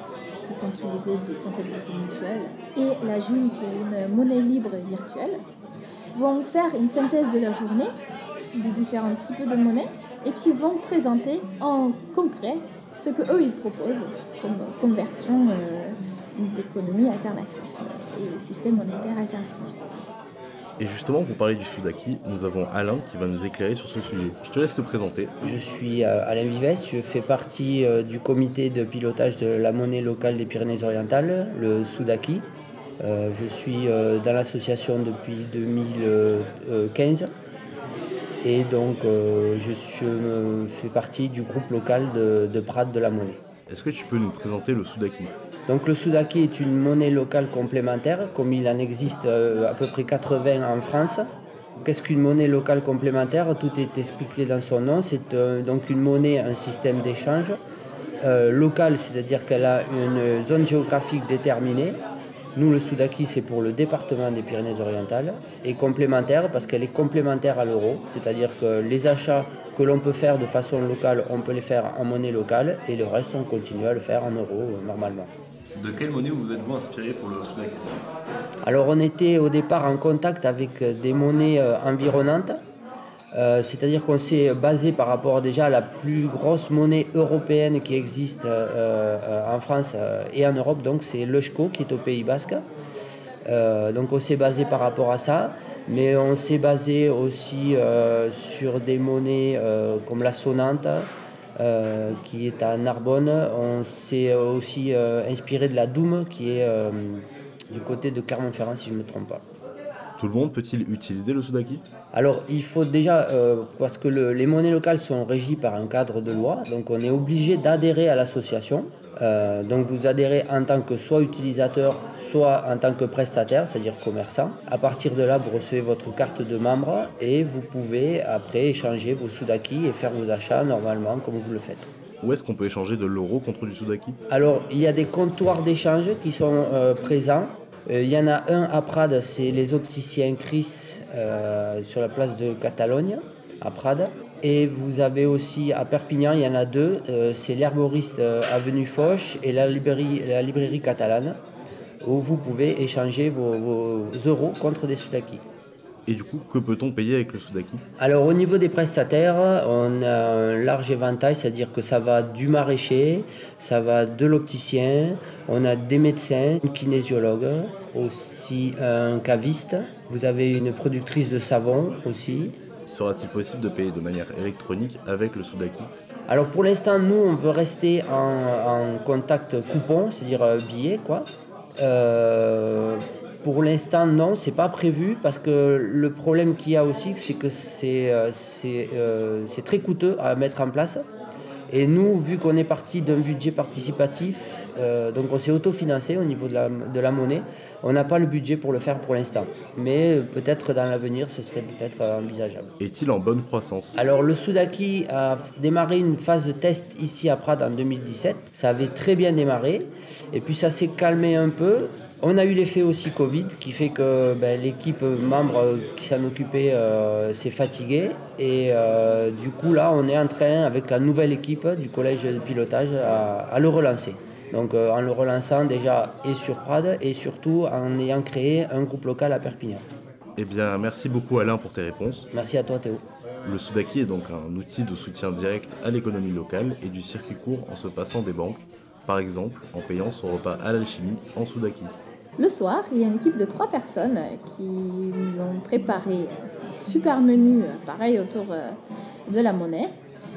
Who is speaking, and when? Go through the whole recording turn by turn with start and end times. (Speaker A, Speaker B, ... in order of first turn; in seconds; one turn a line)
Speaker A: 0.5-5.4
Speaker A: 6.1-7.9
Speaker A: 8.5-19.8
Speaker B: 20.8-25.3
Speaker C: 25.4-32.5
Speaker C: 33.0-37.3
Speaker C: 38.4-43.4
Speaker B: 43.7-45.3
Speaker C: 45.7-51.3
Speaker C: 51.8-57.6
Speaker C: 58.2-62.0
Speaker C: 62.5-75.3
Speaker B: 75.8-78.0
Speaker C: 78.6-82.6
Speaker C: 83.3-92.7
Speaker C: 93.5-109.4
Speaker B: 110.2-111.8
Speaker C: 112.1-131.9
Speaker B: 132.2-134.2
Speaker C: 134.3-151.4
Speaker C: 152.0-155.4
Speaker B: 156.1-157.8
Speaker C: 158.0-172.5
Speaker B: 172.9-175.9
Speaker C: 176.3-181.3
Speaker C: 181.8-191.0
Speaker C: 191.7-202.7
Speaker B: 202.8-204.0
Speaker C: 204.0-229.8
Speaker B: 230.4-232.3
Speaker C: 232.3-233.0
Speaker B: 233.4-241.9
Speaker A: 242.4-249.9